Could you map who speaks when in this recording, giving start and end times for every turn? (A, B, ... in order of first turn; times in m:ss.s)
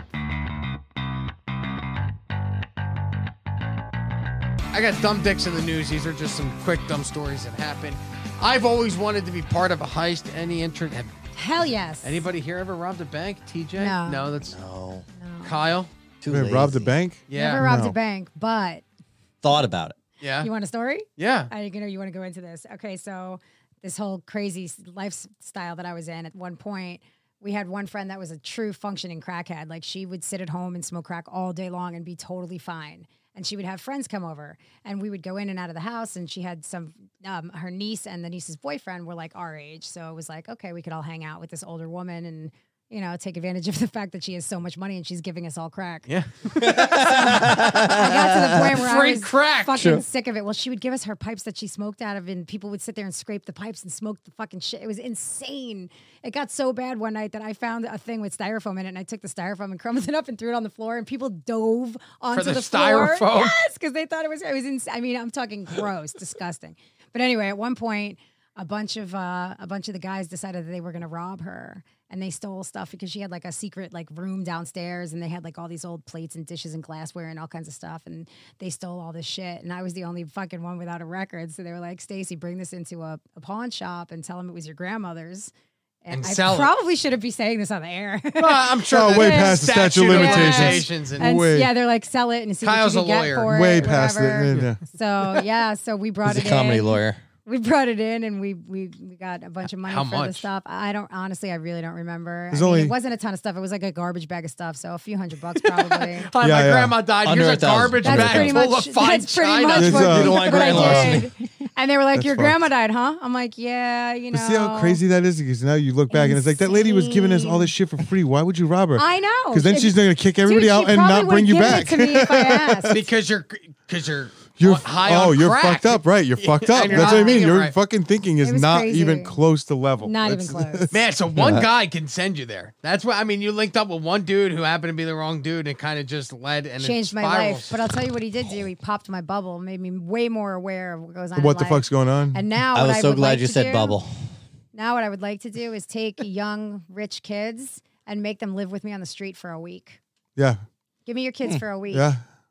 0:04.7-0:11.1 A
0:11.4-0:12.2 B
0:12.0-0:14.6 A
0:13.8-0:14.3 B
0:14.5-0:15.1 C
0:15.2-0:15.5 B
0:15.4-0:15.9 A
0:16.2-0:16.9 C
0:16.3-0:18.0 D
0:17.3-0:17.6 A
0:17.3-0:18.8 B
0:19.4-0:20.0 C
0:20.2-0:20.5 A
0:20.4-0:46.1 B
0:21.2-0:21.5 A
0:46.1-0:47.0 A
0:46.6-0:48.8 C
0:46.7-1:25.5 B
0:48.8-0:49.8 A
0:49.7-0:50.0 C
1:02.3-1:03.6 A
1:26.0-1:46.3 B
1:26.1-1:26.7 A
1:28.4-1:31.3 A
1:28.9-1:31.7 D
1:32.6-1:33.9 A
1:33.5-1:34.8 D
1:36.3-1:37.2 C
1:39.9-1:40.5 A
1:42.5-1:43.0 D
1:45.6-1:50.5 A
1:46.4-1:47.0 D
1:47.2-1:48.5 C
1:48.0-1:55.0 B
1:48.1-1:48.5 D
1:49.8-1:51.3 D
1:49.9-1:51.3 C
1:52.2-1:52.6 D
1:54.3-2:03.0 D
1:56.1-1:57.7 B
1:59.0-2:03.0 B
2:02.9-2:07.7 A
2:04.6-2:10.9 D
2:06.9-2:07.5 B
2:08.4-2:09.4 B
2:10.0-2:10.9 B
2:10.9-2:17.7 A
2:11.4-2:11.6 C
2:16.8-2:24.0 B
2:21.4-2:22.4 D
2:22.7-2:24.3 C
2:24.7-2:30.0 B
2:31.1-2:32.1 B
2:31.9-2:32.2 D